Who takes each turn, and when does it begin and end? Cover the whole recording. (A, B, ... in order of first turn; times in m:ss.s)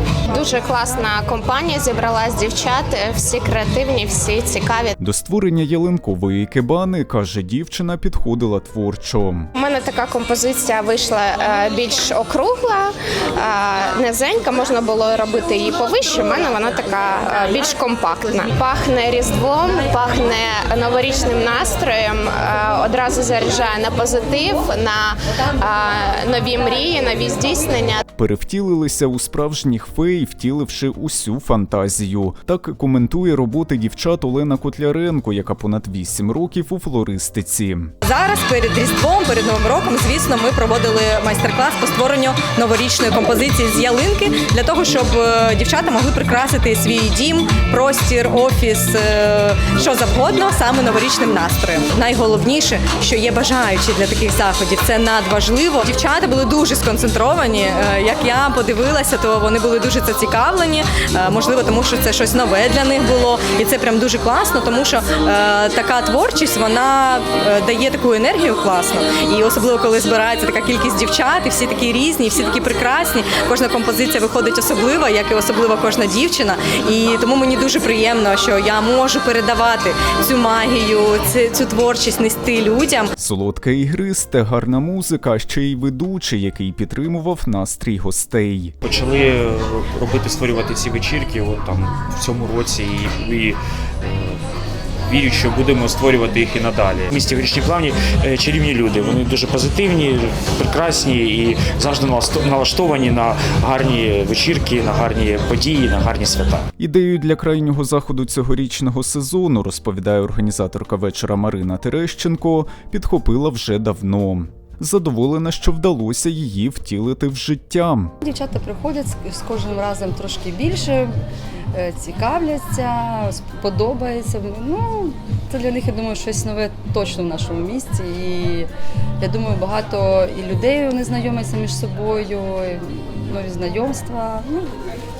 0:00.3-0:05.0 A
0:05.0-0:09.5 B
0:09.6-0:28.0 A
0:28.2-0:37.9 B
0:38.0-1:23.1 C
1:23.2-1:28.7 B
1:28.8-1:34.4 D
1:35.1-1:46.7 D
1:46.8-1:58.1 B
1:58.2-2:01.1 E
2:01.7-2:08.7 E
2:09.2-2:14.7 E